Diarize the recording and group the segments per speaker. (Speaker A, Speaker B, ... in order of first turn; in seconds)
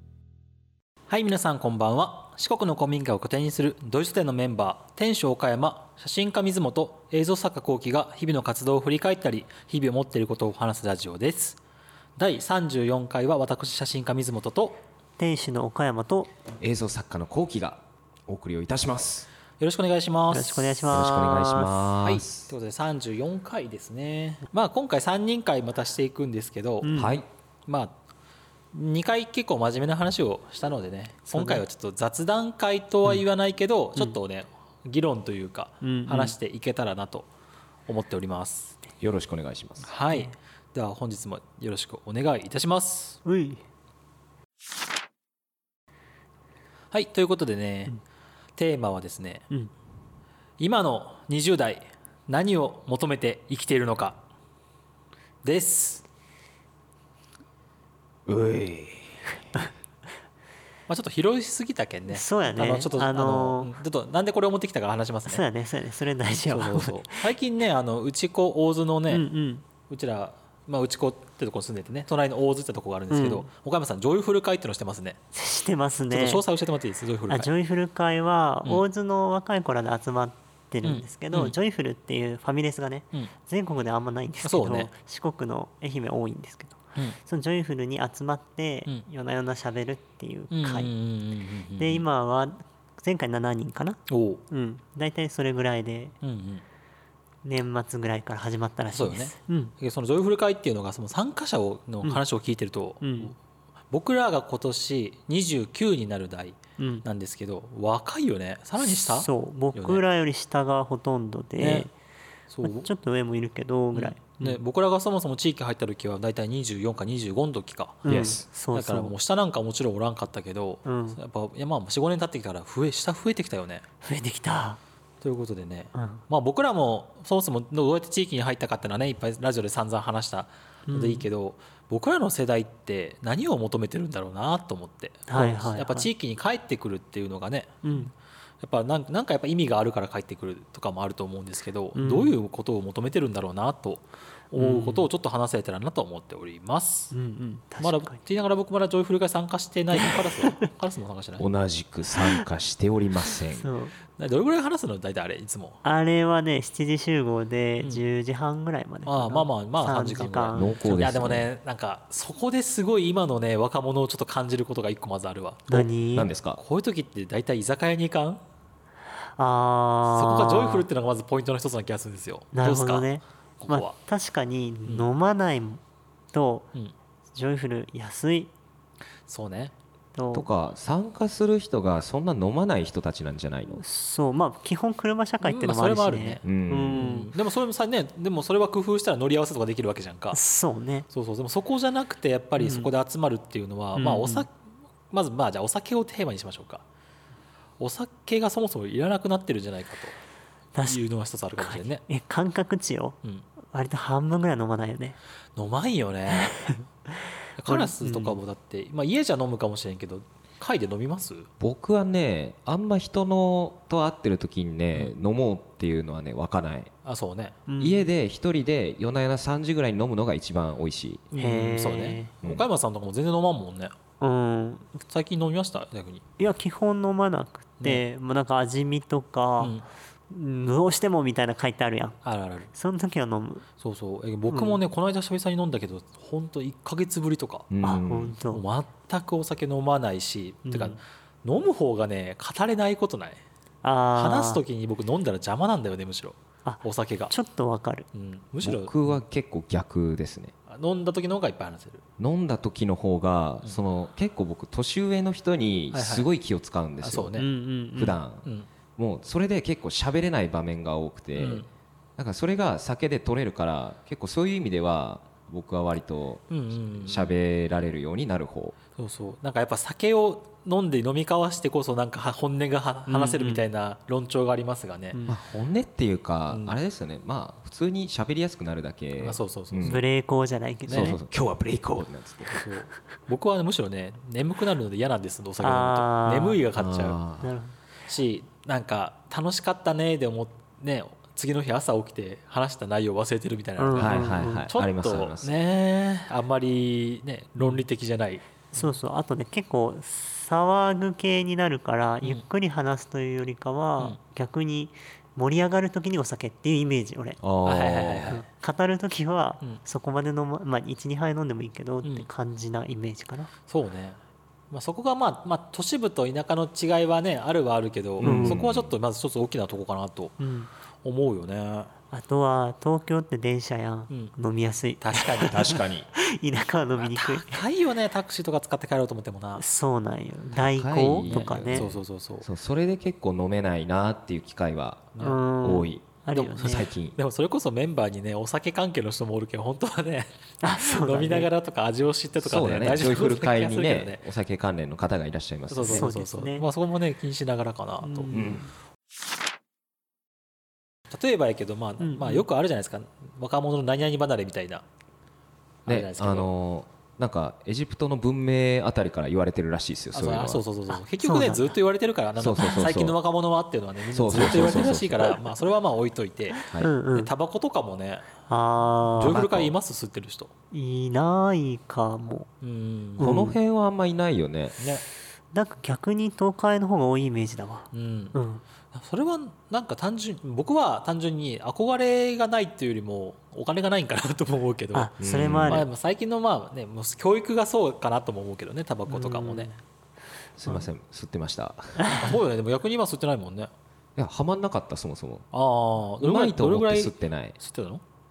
Speaker A: 1.1-11.6, 12.2-14.8, 19.6-20.9, 22.0-26.9, 27.7-27.9, 28.7-37.3, 37.9-38.8, 39.8-43.2, 46.9-48.0, 48.6-49.5, 50.6-54.2, 55.4-56.0, 60.9-65.4, 66.4-69.2, 69.9-75.2, 76.1-77.5, 80.8-81.5, 84.4-84.9, 90.5-92.0, 94.1-94.4, 96.2-96.7, 98.9-103.3, 103.9-110.0, 111.6-111.9, 112.5-112.9, 113.9-123.9, 125.2-138.1, 138.6-147.2, 147.8-151.4, 154.2-155.8, 159.1-165.9, 166.6-168.4, 170.1-173.1, 173.6-173.9, 179.3-179.7, 185.4-186.4, 186.9-190.4, 191.1-194.5, 195.1-196.8, 197.8-200.2, 200.9-202.0, 205.6-206.7, 207.6-211.5, 217.1-217.6, 221.3-223.9, 225.1-226.2, 229.6-229.9, 232.2-232.7, 233.8-237.7, 238.5-243.4, 244.2-247.3, 248.1-249.2, 250.7-252.0, 255.9-256.3, 257.0-257.5, 261.4-261.7, 266.5-267.3, 269.0-275.2, 276.5-276.8, 279.2-279.9, 280.9-281.2, 282.5-287.2, 288.1-298.9, 307.6-308.4, 313.7-314.2, 314.7-320.4, 321.0-321.9, 324.1-324.3, 325.0-325.6, 327.0-329.6, 331.3-332.5, 335.1-335.4, 336.4-344.2, 345.7-348.4, 351.1-354.9, 355.9-356.5, 360.1-366.6, 367.1-368.3, 369.1-370.5, 372.6-373.3, 374.8-375.0, 377.9-378.4, 378.9-385.1, 385.7-389.8, 392.1-393.7, 395.5-398.0
Speaker B: 15.2-16.3, 20.3-21.9, 26.8-27.2, 31.3-31.6, 35.8-36.4, 43.2-43.6, 62.1-63.7, 65.3-67.3, 69.1-69.6, 73.1-73.5, 75.3-76.4, 77.3-90.9, 91.8-96.2, 97.4-99.7, 103.0-103.3, 106.8-107.1, 108.8-111.9, 112.6-114.6, 118.0-119.1, 120.9-121.2, 124.0-124.8, 126.0-126.2, 130.9-131.3, 135.3-136.1, 137.8-138.1, 141.9-142.3, 144.6-145.1, 147.1-148.2, 149.9-150.6, 153.5-153.9, 155.8-160.8, 165.7-166.3, 169.4-170.9, 172.5-175.8, 176.3-176.7, 177.3-178.5, 180.2-180.5, 183.8-187.3, 190.3-191.1, 192.6-192.9, 194.0-194.5, 200.7-201.0, 201.6-205.2, 206.5-206.8, 207.7-208.4, 217.7-218.1, 221.4-222.3, 224.2-225.0, 226.4-232.2, 232.7-233.7, 234.5-234.8, 237.8-238.6, 240.7-241.0, 243.8-244.6, 246.7-248.1, 257.4-258.2, 273.1-273.6, 275.1-275.4, 279.8-281.2, 285.6-286.6, 287.4-287.8, 293.8-294.7, 298.7-307.4, 308.3-313.5, 318.2-318.6, 320.4-320.7, 322.1-327.6, 329.6-331.9, 335.2-336.9, 340.6-341.5, 345.9-346.7, 348.0-348.7, 352.0-352.4, 361.2-361.8, 366.7-367.3, 368.5-369.4, 370.7-372.5, 373.2-373.6, 375.5-378.6, 384.9-385.9, 389.1-389.8, 392.0-392.3
Speaker C: 16.6-19.3, 20.9-22.5, 26.9-27.3, 39.0-39.9, 58.3-59.2, 118.1-118.5, 151.4-153.7, 160.5-161.5, 166.2-166.6, 180.3-183.8, 186.4-187.1, 211.6-216.9, 217.8-221.3, 237.7-238.4, 248.6-250.5, 252.2-257.3, 257.9-258.5, 259.0-261.6, 262.2-268.8, 275.3-280.0, 280.9-282.6, 286.8-287.5, 294.0-295.5, 307.4-308.4, 318.2-318.9, 325.4-326.1, 330.6-337.2, 342.4-346.1, 348.3-348.7, 355.9-360.6, 362.4-363.2, 364.1-365.4, 369.3-369.7, 373.2-374.8, 385.2-385.9, 390.6-392.1, 394.2-395.5, 396.2-397.6